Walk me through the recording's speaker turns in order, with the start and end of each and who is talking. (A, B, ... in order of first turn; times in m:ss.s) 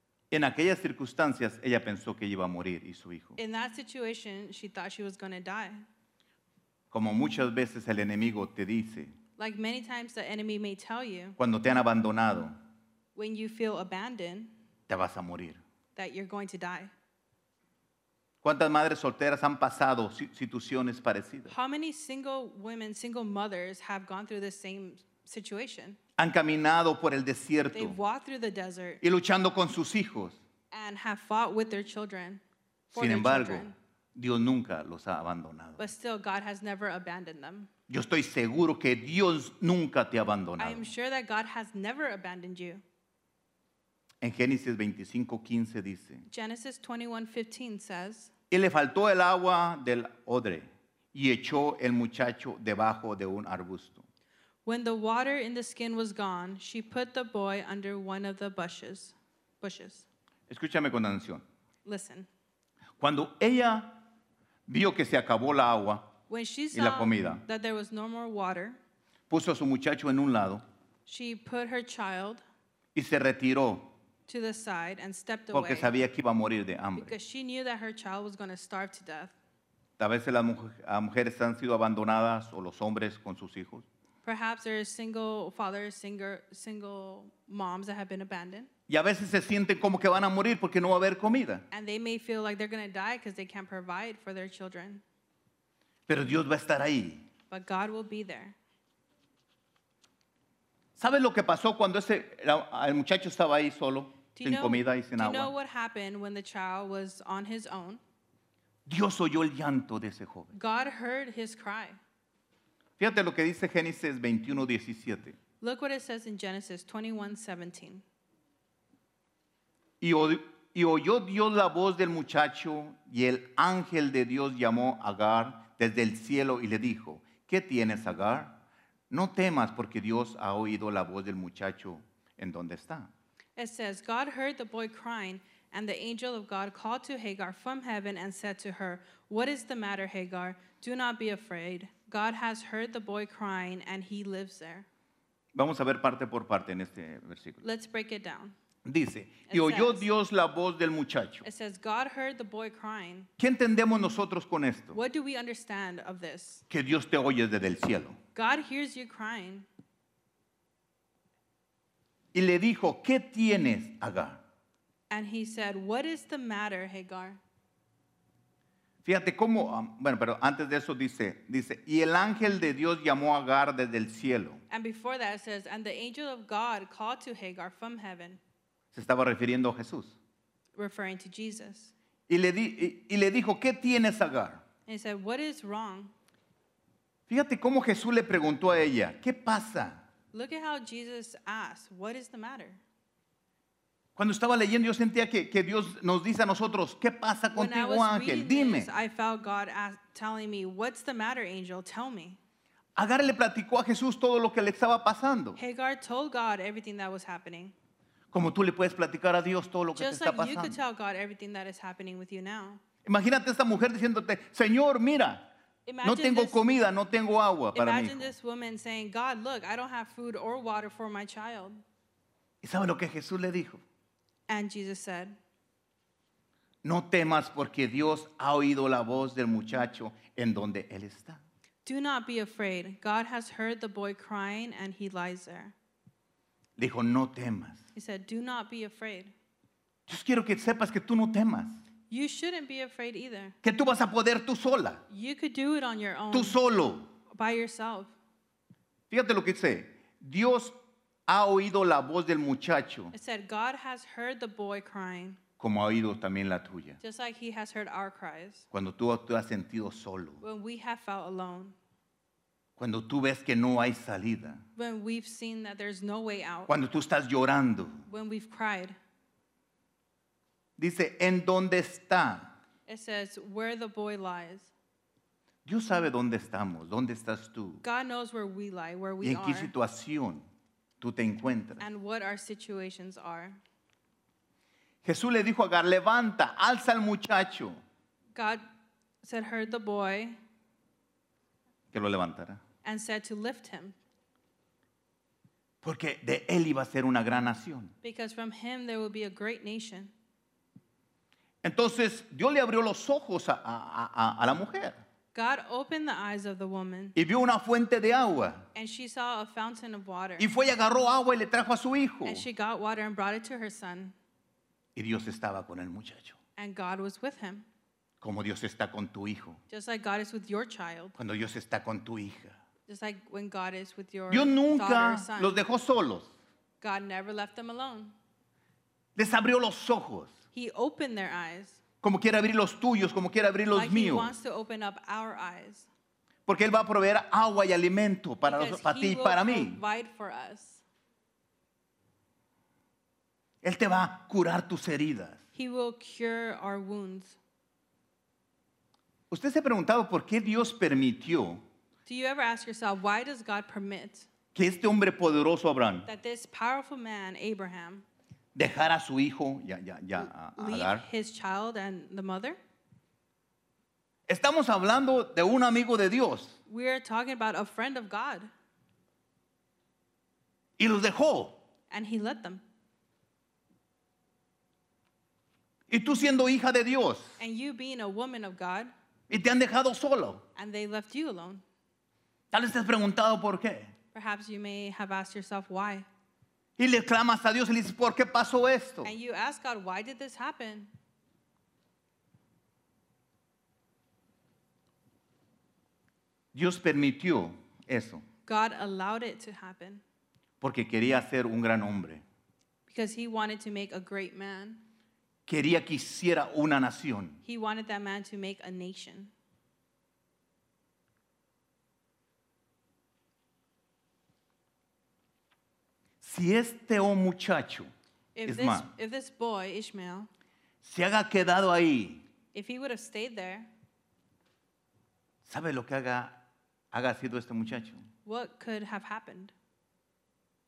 0:00.3-0:03.4 A
0:03.4-0:05.8 B
0:06.9-0:09.1 A
0:09.4-0:11.4 B
0:11.4-0:12.6 A
0:13.1-0:14.5 B
0:14.9-0:15.6 A
0:16.0-0:16.9 B
0:18.4-0:21.5 A
0:21.5-0:26.0 B
0:26.2-0:28.0 A
0:27.7-0:29.0 B
0:29.0-0:30.4 A
0:30.7-0:32.4 B
0:32.9-0:33.7 B
0:33.0-0:35.8 A
0:35.8-0:37.7 B
0:37.9-0:40.9 A
0:40.6-0:42.8 B
0:44.2-0:46.2 A
0:46.3-0:48.3 B
0:48.5-0:54.0 A
0:54.6-1:00.0 B
1:00.5-1:01.4 A
1:01.8-1:02.3 B
1:03.0-1:04.0 A
1:04.7-1:06.1 A
1:06.3-1:08.8 B
1:06.7-1:07.4 A
1:09.3-1:10.6 A
1:11.1-1:12.4 B
1:13.0-1:13.9 A
1:14.3-1:16.0 B
1:15.5-1:17.1 A
1:17.0-1:19.3 B
1:20.0-1:23.8 A
1:24.2-1:28.7 B
1:28.9-1:31.6 A
1:31.7-1:35.0 B
1:36.1-1:37.2 A
1:37.5-1:38.6 B
1:41.0-1:45.5 A
1:44.3-1:48.0 B
1:48.9-1:50.5 A
1:50.5-1:52.0 B
1:53.0-1:55.4 A
1:55.6-1:58.0 B
2:00.0-2:08.6 A
2:09.1-2:13.1 A
2:13.6-2:24.9 B
2:25.6-2:27.6 A
2:27.6-2:28.6 B
2:28.8-2:31.4 A
2:29.5-2:30.1 B
2:31.4-2:33.3 B
2:33.4-2:35.0 A
2:34.9-2:36.6 B
2:36.7-2:38.2 A
2:38.3-2:39.7 B
2:42.3-2:44.4 A
2:45.1-2:47.4 B
2:49.0-2:54.6 A
2:54.7-2:58.4 B
2:58.9-3:00.2 A
3:00.8-3:01.9 B
3:02.3-3:04.6 A
3:04.9-3:06.1 B
3:07.3-3:10.0 A
3:10.3-3:12.8 B
3:14.2-3:18.9 A
3:17.5-3:22.4 B
3:23.0-3:25.6 A
3:25.6-3:27.7 B
3:28.3-3:30.8 A
3:30.0-3:32.8 B
3:33.0-3:35.5 A
3:35.9-3:36.6 B
3:36.0-3:38.3 A
3:37.7-3:41.8 B
3:42.6-3:43.8 A
3:44.5-3:45.4 B
3:46.8-3:51.4 A
3:51.8-3:55.7 B
3:56.8-3:57.8 A
3:58.0-3:59.3 B
4:00.1-4:01.8 A
4:02.1-4:03.6 B
4:03.6-4:05.0 A
4:05.1-4:06.6 B
4:06.3-4:07.1 A
4:07.3-4:08.1 B
4:09.1-4:10.8 A
4:11.3-4:13.1 A
4:13.1-4:15.4 B
4:15.6-4:17.0 A
4:17.0-4:18.7 B
4:18.7-4:20.4 A
4:20.4-4:21.7 B
4:22.8-4:24.6 A
4:24.8-4:26.7 B
4:26.7-4:28.0 A
4:28.1-4:29.0 B
4:30.8-4:32.5 A
4:32.9-4:34.7 B
4:35.6-4:37.8 A
4:37.8-4:39.7 B
4:39.2-4:40.4 A
4:41.0-4:41.8 A
4:41.8-4:43.6 B
4:45.0-4:47.8 A
4:48.4-4:48.6 B
4:49.2-4:50.4 B
4:51.9-4:52.6 A
4:52.8-4:54.0 B
4:55.8-4:57.9 A
4:58.0-5:00.1 B
5:01.6-5:05.0 A
5:05.3-5:07.2 B
5:07.1-5:08.6 A
5:08.7-5:10.5 B
5:10.4-5:12.4 A
5:12.2-5:14.1 B
5:15.0-5:16.4 A
5:16.6-5:17.6 B
5:18.2-5:19.6 A
5:19.7-5:21.1 B
5:21.2-5:22.6 A
5:22.9-5:25.6 B
5:24.3-5:26.3 A
5:26.8-5:28.1 B
5:29.2-5:30.3 A
5:30.5-5:31.8 B
5:32.0-5:34.3 A
5:33.7-5:35.9 B
5:36.4-5:39.8 A
5:38.4-5:40.8 B
5:43.6-5:45.4 A
5:45.6-5:47.4 B
5:49.3-5:51.6 A
5:52.0-5:54.3 B
5:54.6-5:56.1 A
5:56.0-5:58.0 B
5:58.6-6:01.0 A
6:00.4-6:02.6 B
6:04.3-6:06.6 A
6:06.7-6:08.5 B
6:10.8-6:11.6 A
6:11.9-6:12.6 B
6:15.9-6:17.4 A
6:17.4-6:18.9 B
6:19.3-6:20.4 A
6:20.6-6:21.6 B
6:22.5-6:23.9 A
6:24.1-6:26.0 B
6:26.8-6:29.1 A
6:29.0-6:30.9 B
6:36.5-6:38.2 A
6:38.5-6:40.0 B
6:40.6-6:42.2 A
6:42.9-6:44.8 B
6:45.5-6:47.4 A
6:47.4-6:49.3 B
6:56.2-6:57.9 A
6:58.4-7:00.3 B
6:58.4-6:58.9 A
7:00.8-7:02.2 A
7:02.5-7:03.7 B
7:05.4-7:06.4 A
7:06.9-7:08.0 A
7:08.3-7:09.5 B